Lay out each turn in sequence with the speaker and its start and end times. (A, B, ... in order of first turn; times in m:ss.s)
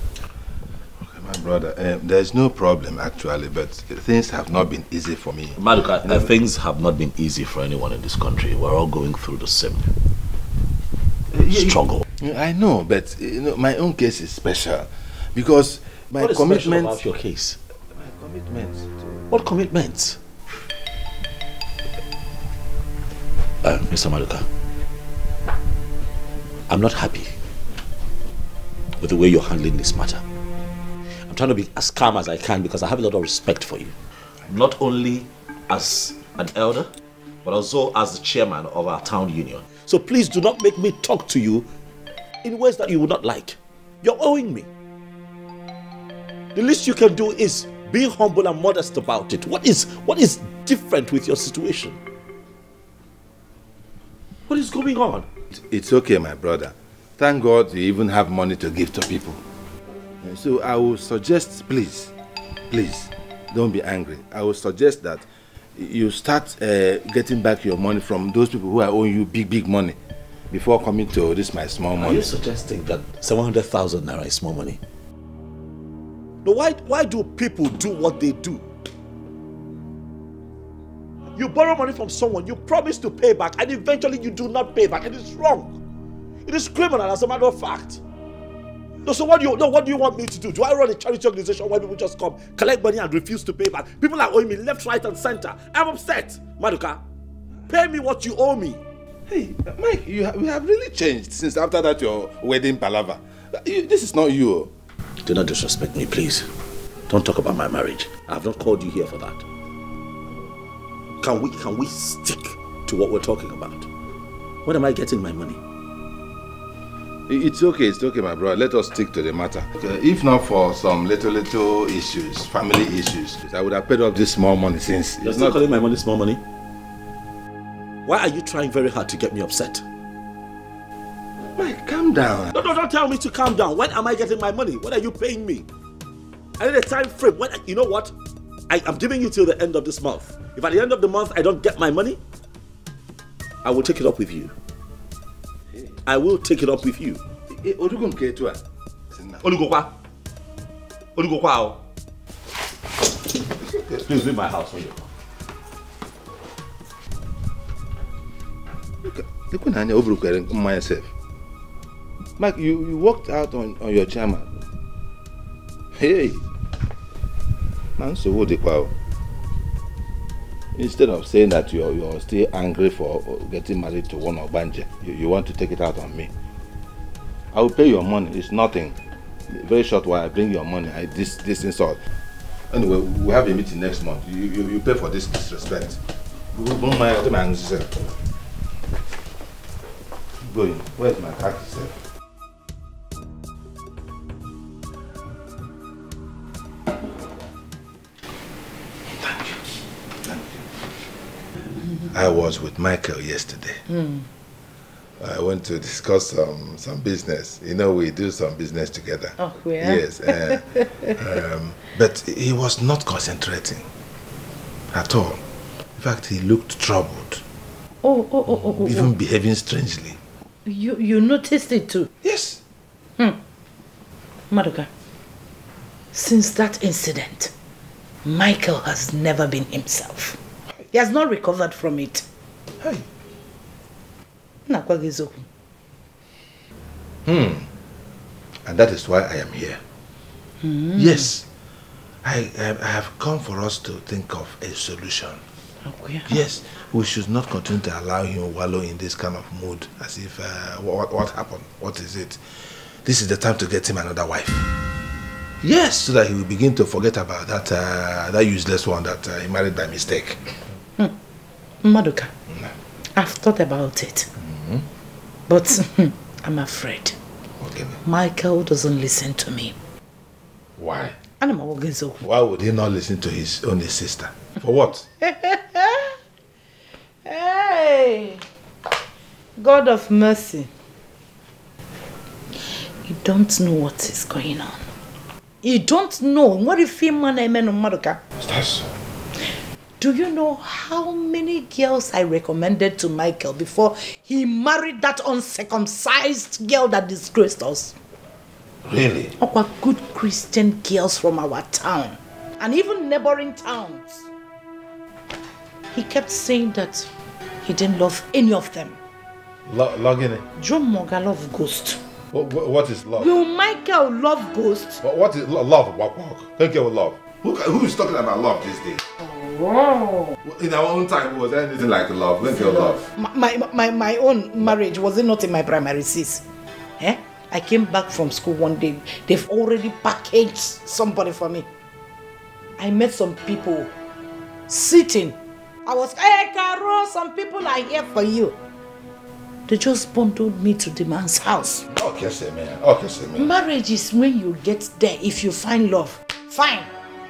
0:01.0-0:06.3 A
0:05.6-0:09.9 B
0:11.3-0:17.0 A
0:11.4-0:12.0 B
0:16.2-0:17.6 B
0:17.9-0:19.2 A
0:19.3-0:20.2 B
0:23.6-0:24.4 B
0:26.7-0:27.3 B
0:29.0-0:30.2 B
0:31.3-0:33.9 B
0:34.5-0:36.9 B
0:37.4-0:41.6 B
0:42.4-0:44.7 B
0:46.5-0:52.0 B
0:54.5-0:55.3 B
0:55.5-0:59.4 A
1:00.2-1:02.1 A
1:02.7-1:10.0 A
1:10.5-1:12.2 A
1:12.0-1:14.8 B
1:16.4-1:18.6 B
1:21.4-1:25.8 B
1:26.4-1:28.0 B
1:29.0-1:37.0 B
1:37.7-1:38.8 B
1:39.3-1:44.7 A
1:45.2-1:46.5 B
1:47.1-1:49.4 B
1:51.2-1:53.9 B
1:54.6-1:55.6 B
1:57.3-2:05.6 A
2:05.2-2:06.4 B
2:08.0-2:09.8 B
2:11.5-2:12.5 A
2:12.5-2:15.6 B
2:16.6-2:18.1 B
2:18.7-2:22.2 B
2:23.6-2:24.5 B
2:26.0-2:27.2 B
2:27.5-2:28.6 A
2:29.1-2:29.5 A
2:29.4-2:29.9 B
2:31.2-2:31.8 B
2:33.6-2:34.3 A
2:34.0-2:35.1 B
2:39.0-2:41.1 A
2:42.4-2:44.5 A
2:45.9-2:46.4 A
2:48.0-2:48.9 A
2:50.7-2:56.3 A
2:57.5-2:59.0 A
2:59.5-3:02.0 A
3:02.7-3:06.0 A
3:06.5-3:08.0 A
3:10.5-3:11.9 A
3:19.1-3:19.7 A
3:20.2-3:20.6 A
3:22.0-3:23.8 A
3:23.9-3:24.2 C
3:25.2-3:33.9 A
3:29.4-3:31.1 C
3:34.9-3:35.4 A
3:36.0-3:37.4 A
3:38.0-3:39.1 C
3:38.7-3:40.2 A
3:40.6-3:42.1 C
3:42.2-3:42.6 A
3:44.5-3:44.9 C
3:46.1-3:47.5 C
3:48.2-3:50.4 C
3:50.9-3:52.2 C
3:54.7-3:55.4 C
3:57.2-3:57.7 A
3:58.6-3:59.8 A
4:00.6-4:01.3 C
4:01.0-4:01.4 A
4:02.2-4:05.4 A
4:05.8-4:06.3 C
4:06.3-4:14.7 A
4:15.6-4:20.4 A
4:21.8-4:22.3 C
4:23.1-4:24.3 C
4:24.4-4:24.9 A
4:25.5-4:27.2 C
4:27.6-4:28.0 A
4:28.0-4:29.7 C
4:30.8-4:31.2 A
4:31.4-4:32.2 C
4:32.2-4:35.1 A
4:35.2-4:36.2 C
4:37.2-4:38.4 C
4:39.6-4:40.7 C
4:43.0-4:44.8 C
4:45.6-4:48.2 C
4:48.4-4:48.9 A
4:50.0-4:58.0 C
4:58.8-4:59.3 A
4:59.4-5:04.3 C
5:05.9-5:07.1 C
5:07.6-5:09.0 C
5:09.7-5:10.4 A
5:10.6-5:12.0 C
5:12.3-5:13.3 A
5:13.2-5:15.0 C
5:15.0-5:19.0 A
5:19.2-5:20.4 C
5:20.4-5:23.0 A
5:22.5-5:26.4 C
5:27.0-5:31.6 C
5:32.8-5:33.9 C
5:34.7-5:38.5 C
5:39.7-5:41.8 C
5:41.9-5:43.5 A
5:43.4-5:46.9 C